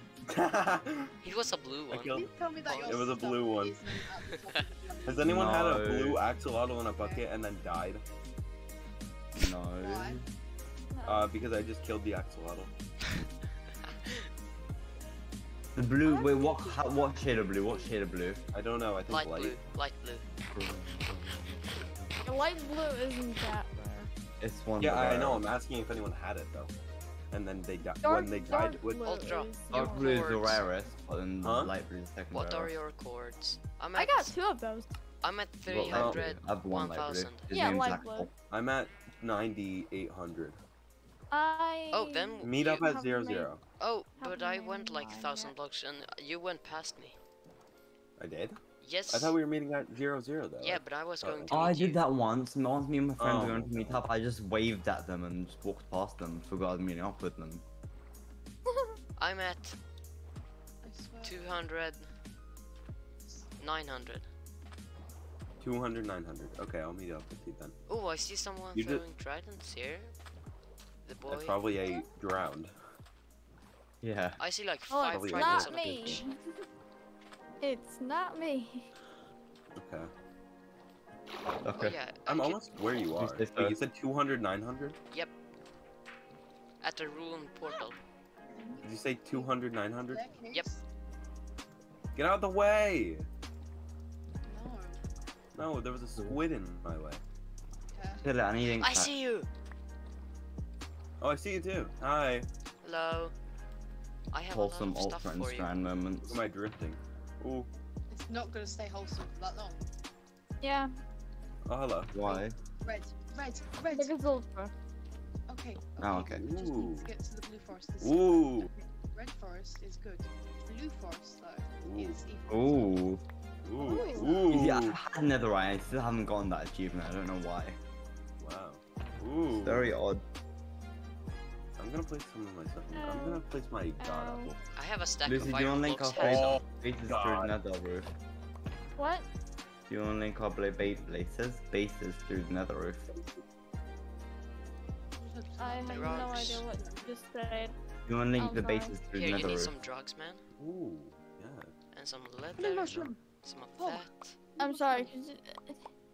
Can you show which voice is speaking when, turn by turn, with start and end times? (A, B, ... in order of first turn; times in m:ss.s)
0:00.3-0:01.1 A
0:01.2-0:03.0 B
0:01.9-0:02.3 A
0:02.1-0:05.3 C
0:02.8-0:03.8 A
0:04.3-0:04.6 B
0:05.0-0:08.0 A
0:05.2-0:06.2 D
0:07.0-0:07.2 C
0:09.4-0:10.2 D
0:09.8-0:10.2 C
0:10.9-0:11.3 E
0:11.0-0:12.7 A
0:13.8-0:14.3 B
0:15.7-0:18.4 D
0:16.1-0:17.9 C
0:18.5-0:19.6 A
0:19.1-0:20.2 B
0:20.5-0:21.6 D
0:22.2-0:24.1 E
0:24.4-0:25.4 D
0:24.8-0:26.7 A
0:27.3-0:29.2 A
0:28.0-0:30.4 E
0:29.0-0:30.6 B
0:29.7-0:32.8 D
0:31.4-0:31.7 A
0:32.3-0:34.4 B
0:33.9-0:35.0 E
0:35.2-0:37.6 B
0:35.6-0:38.3 D
0:35.9-0:36.2 A
0:37.5-0:38.3 E
0:38.5-0:40.6 A
0:41.3-0:43.5 E
0:41.9-0:42.8 B
0:42.4-0:43.6 A
0:43.8-0:47.2 B
0:44.2-0:45.5 E
0:48.2-0:51.6 A
0:48.8-0:49.3 B
0:50.6-0:52.0 B
0:51.5-0:57.6 D
0:53.2-0:54.0 A
0:59.2-0:59.8 B
1:00.8-1:01.6 C
1:01.2-1:02.1 B
1:03.6-1:04.3 B
1:05.6-1:07.7 A
1:07.9-1:10.1 B
1:08.7-1:09.0 A
1:11.0-1:11.6 B
1:11.3-1:12.8 A
1:14.0-1:14.4 D
1:14.4-1:16.2 B
1:14.9-1:16.4 E
1:15.1-1:16.2 A
1:17.6-1:18.9 E
1:19.7-1:20.1 A
1:21.6-1:22.0 D
1:21.7-1:22.6 B
1:22.2-1:25.0 A
1:23.2-1:23.8 D
1:26.8-1:28.0 B
1:28.5-1:30.8 C
1:28.8-1:30.2 A
1:32.1-1:33.3 A
1:34.4-1:35.0 C
1:35.5-1:37.2 A
1:37.9-1:38.3 C
1:38.2-1:39.1 D
1:38.8-1:39.5 B
1:41.2-1:42.5 A
1:42.8-1:43.3 B
1:44.3-1:45.7 B
1:44.5-1:46.4 D
1:46.2-1:47.7 A
1:48.1-1:49.8 C
1:50.6-1:51.0 E
1:51.6-1:52.1 A
1:52.1-1:52.5 D
1:52.2-1:54.2 C
1:53.9-1:54.7 E
1:55.5-2:03.0 C
1:56.0-1:56.4 D
1:56.1-1:57.1 A
1:58.0-1:58.7 A
2:01.8-2:02.2 A
2:02.5-2:03.2 D
2:03.6-2:05.0 A
2:03.8-2:04.4 E
2:03.8-2:04.4 C
2:04.5-2:07.8 D
2:08.4-2:09.9 A
2:09.6-2:10.2 D
2:11.8-2:14.6 A
2:12.9-2:14.5 E
2:14.7-2:16.6 B
2:15.2-2:18.1 D
2:16.2-2:17.5 A
2:19.0-2:19.3 E
2:19.9-2:23.2 D
2:25.1-2:27.1 C
2:25.6-2:27.7 E
2:25.9-2:26.6 B
2:28.1-2:29.7 D
2:28.4-2:29.0 E
2:29.1-2:30.4 B
2:30.6-2:31.7 A
2:31.9-2:34.4 B
2:32.6-2:33.2 C
2:33.8-2:34.0 C
2:34.6-2:35.2 C
2:34.6-2:35.8 E